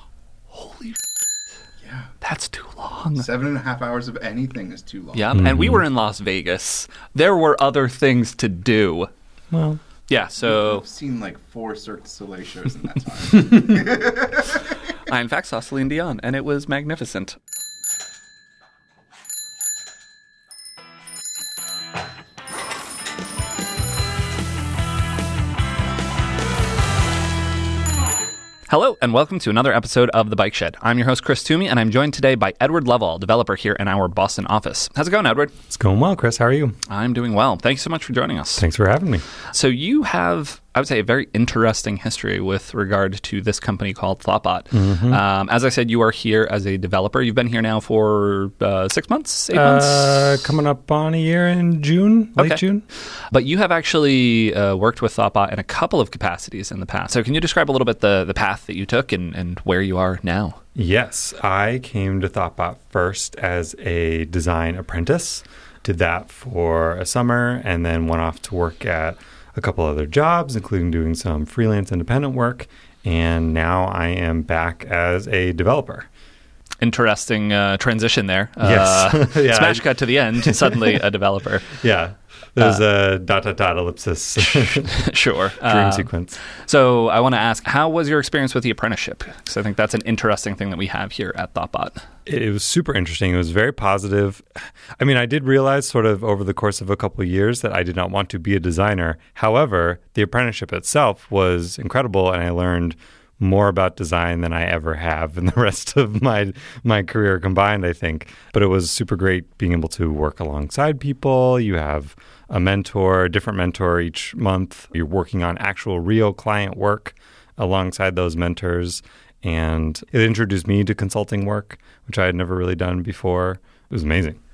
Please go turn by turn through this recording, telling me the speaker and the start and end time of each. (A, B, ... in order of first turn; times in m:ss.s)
0:00.5-0:01.0 A
0:01.8-0:02.1 B
0:02.2-0:03.2 A
0:03.2-0:05.2 B
0:05.1-0:09.1 A
0:05.3-0:05.8 C
0:09.5-0:09.8 C
0:10.1-0:10.8 A
0:10.4-0:14.6 B
0:15.0-0:17.4 A
0:28.7-0:35.5 A
0:35.7-0:36.8 C
0:36.9-0:38.6 A
0:38.6-0:39.2 C
0:39.5-0:50.4 A
0:44.7-0:45.2 C
0:49.5-0:52.8 C
0:52.4-0:52.6 A
0:53.3-1:00.6 A
1:00.8-1:16.1 C
1:16.8-1:21.7 A
1:18.6-1:19.8 C
1:20.4-1:21.0 C
1:21.7-1:25.0 C
1:24.4-1:32.0 A
1:25.6-1:26.4 C
1:32.3-1:34.5 C
1:35.0-2:04.4 C